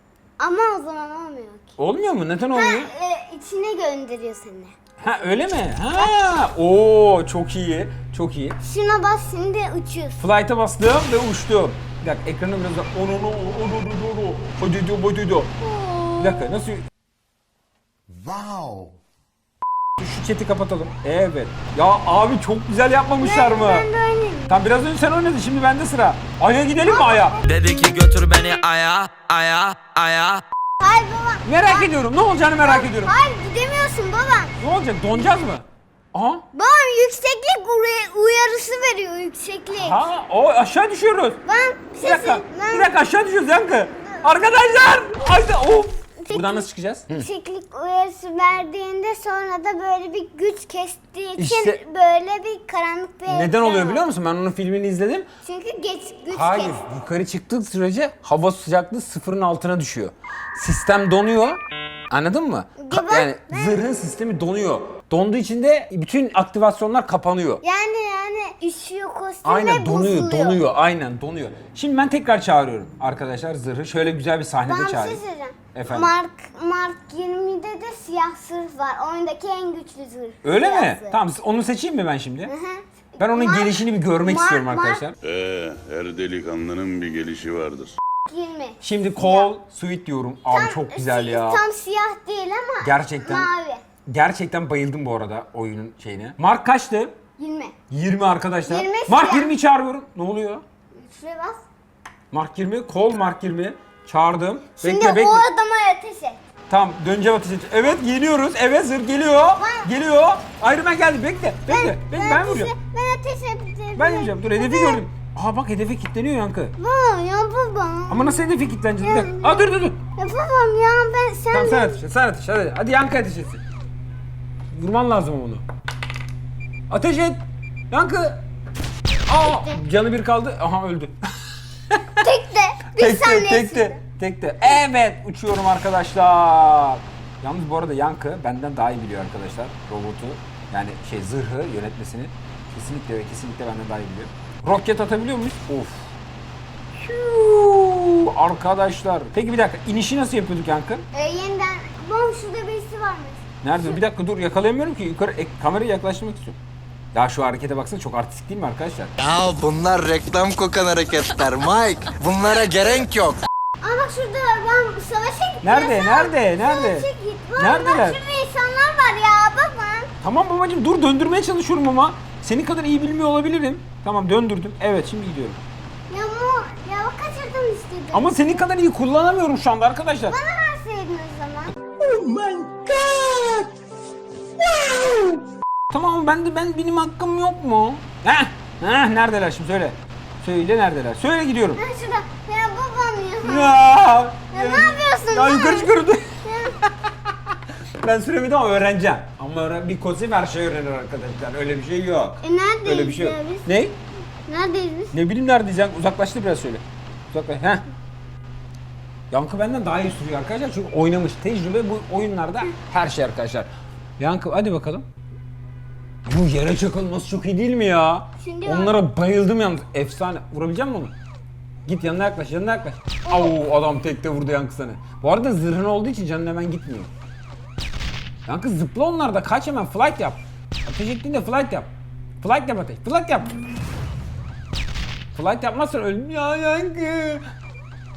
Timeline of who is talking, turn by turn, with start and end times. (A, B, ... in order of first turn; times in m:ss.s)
0:00.4-0:01.7 A
0:01.8-0:02.9 B
0:02.5-0:04.7 A
0:05.0-0:08.6 B
0:05.9-0:06.3 A
0:08.6-0:10.2 A
0:10.2-0:15.5 B
0:15.6-0:16.6 A
0:16.2-0:16.8 B
0:18.1-0:18.9 C
0:20.0-0:23.8 B
0:23.2-0:24.6 A
0:24.5-0:27.4 B
0:26.8-0:27.5 A
0:27.4-0:30.4 D
0:30.8-0:34.6 A
0:31.4-0:33.1 B
0:34.6-0:36.4 B
0:36.5-0:40.0 A
0:39.7-0:41.4 B
0:41.4-0:43.0 A
0:42.0-0:47.3 B
0:44.0-0:44.6 A
0:46.3-0:54.0 A
0:51.4-0:51.8 B
0:53.3-0:55.3 B
0:55.4-0:56.8 A
0:56.3-1:01.6 B
1:02.1-1:07.6 B
1:02.8-1:03.8 A
1:07.6-1:10.6 A
1:09.4-1:15.2 B
1:14.7-1:21.2 A
1:15.7-1:16.1 B
1:20.4-1:22.5 B
1:22.4-1:25.0 A
1:23.2-1:25.1 B
1:25.2-1:28.0 E
1:28.3-1:29.5 A
1:28.8-1:31.6 B
1:30.5-1:33.8 A
1:32.8-1:33.5 B
1:34.1-1:37.1 B
1:37.4-1:37.7 A
1:37.9-1:40.6 B
1:38.6-1:39.5 A
1:40.9-1:41.6 A
1:42.3-1:45.4 B
1:44.8-1:46.4 A
1:46.7-1:52.7 B
1:49.4-1:49.9 A
1:51.7-1:55.0 A
1:54.0-1:56.7 B
1:56.8-2:02.0 A
1:58.1-2:00.0 B
2:01.5-2:03.6 B
2:04.7-2:05.6 B
2:06.9-2:07.4 B
2:07.9-2:08.4 B
2:09.2-2:11.2 B
2:09.4-2:09.8 A
2:12.2-2:14.0 A
2:13.0-2:26.1 B
2:26.9-2:31.0 B
2:31.1-2:33.4 A
2:33.6-2:36.6 B
2:37.1-2:39.1 B
2:39.2-2:43.4 C
2:43.8-2:50.1 A
2:45.6-2:48.2 B
2:50.2-2:55.6 B
2:56.1-2:58.6 A
2:58.1-3:00.4 B
3:00.2-3:01.8 A
3:02.0-3:03.7 B
3:05.9-3:11.8 B
3:11.8-3:14.0 A
3:13.4-3:24.0 B
3:14.5-3:15.9 A
3:16.4-3:16.8 A
3:22.4-3:23.7 A
3:24.5-3:25.1 A
3:25.1-3:27.8 B
3:29.3-3:35.1 B
3:36.2-3:41.1 B
3:38.4-3:39.0 A
3:41.8-3:47.1 B
3:43.2-3:43.6 A
3:48.5-3:51.9 B
3:52.4-3:53.6 B
3:55.3-3:57.4 B